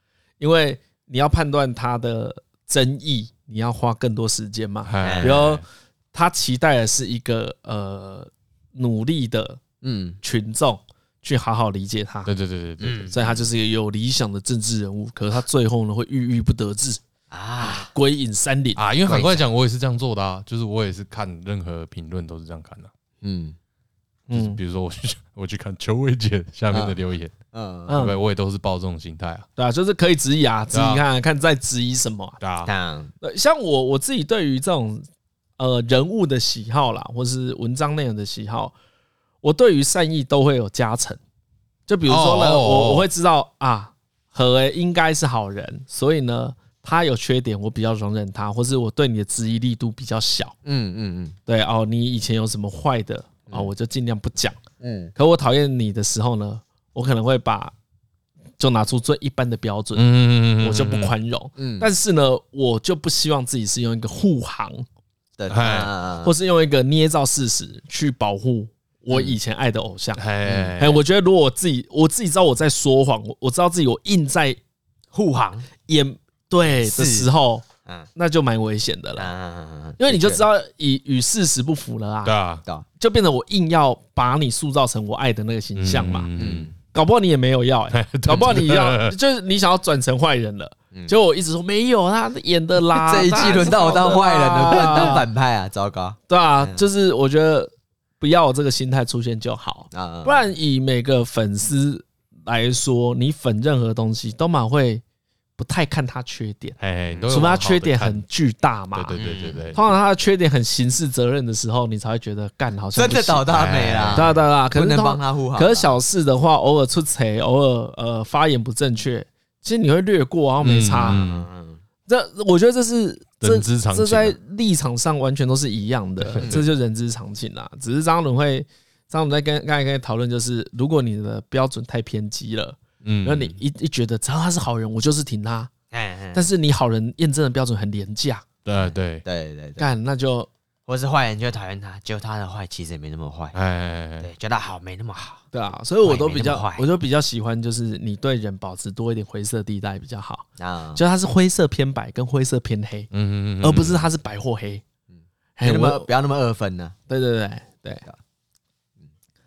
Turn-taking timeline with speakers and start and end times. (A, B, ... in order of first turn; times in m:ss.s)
0:00.4-0:09.6 A
0:04.9-0:05.6 B
0:05.0-0:05.4 C
0:09.8-0:10.2 C
0:10.2-0:12.3 A
0:12.3-0:13.2 B
0:12.8-0:13.5 C
0:13.1-0:17.0 A
0:17.3-0:17.9 C
0:17.6-0:18.8 A
0:18.8-0:22.9 B
0:19.0-0:19.5 C
0:23.2-0:23.6 C
0:24.3-0:24.6 A
0:24.3-0:27.4 B
0:26.7-0:27.0 C
0:27.5-0:27.9 C
0:27.9-0:28.2 A
0:27.9-0:29.5 B
0:29.6-0:32.4 A
0:30.7-0:31.0 B
0:32.4-0:32.7 B
0:32.7-0:33.1 C
0:33.2-0:35.1 A
0:35.6-0:38.7 A
0:39.4-0:41.2 A
0:41.9-0:50.6 A
0:42.1-0:43.1 B
0:50.6-0:51.4 C
0:51.5-0:54.6 A
0:54.8-0:55.1 C
0:55.2-0:57.7 A
0:58.6-1:04.8 A
1:00.0-1:01.1 B
1:01.6-1:01.9 C
1:05.4-1:06.4 C
1:05.5-1:05.9 B
1:06.2-1:10.2 A
1:09.1-1:09.4 C
1:10.2-1:11.0 B
1:10.5-1:10.8 C
1:10.8-1:14.6 A
1:15.1-1:15.7 C
1:15.9-1:17.6 A
1:16.8-1:17.3 C
1:18.2-1:19.3 A
1:19.2-1:20.5 C
1:20.0-1:22.4 A
1:22.2-1:22.6 B
1:23.0-1:26.3 A
1:25.8-1:26.7 B
1:26.4-1:26.7 C
1:26.9-1:35.3 A
1:27.9-1:29.2 B
1:28.3-1:28.6 C
1:33.0-1:36.9 C
1:36.3-1:45.0 A
1:39.9-1:40.5 C
1:45.6-1:46.8 A
1:46.8-1:48.2 B
1:47.3-1:49.2 A
1:48.9-1:49.8 B
1:49.2-1:49.8 C
1:49.8-1:53.6 A
1:52.9-1:56.0 C
1:53.5-1:54.4 B
1:54.2-2:01.2 A
2:00.6-2:01.5 B
2:01.1-2:01.8 C
2:02.1-2:15.7 A
2:03.4-2:04.4 B
2:06.2-2:06.6 B
2:06.4-2:06.7 C
2:13.0-2:13.5 B
2:15.9-2:16.5 C
2:16.3-2:18.4 A
2:18.6-2:19.2 B
2:18.7-2:19.8 C
2:19.8-2:20.5 A
2:20.9-2:23.6 C
2:23.5-2:24.3 B
2:24.2-2:25.4 C
2:25.5-2:33.1 A
2:26.0-2:26.9 C
2:30.6-2:31.0 C
2:33.1-2:34.1 B
2:33.6-2:34.8 A
2:35.1-2:37.0 C
2:35.6-2:36.1 A
2:37.1-2:38.0 A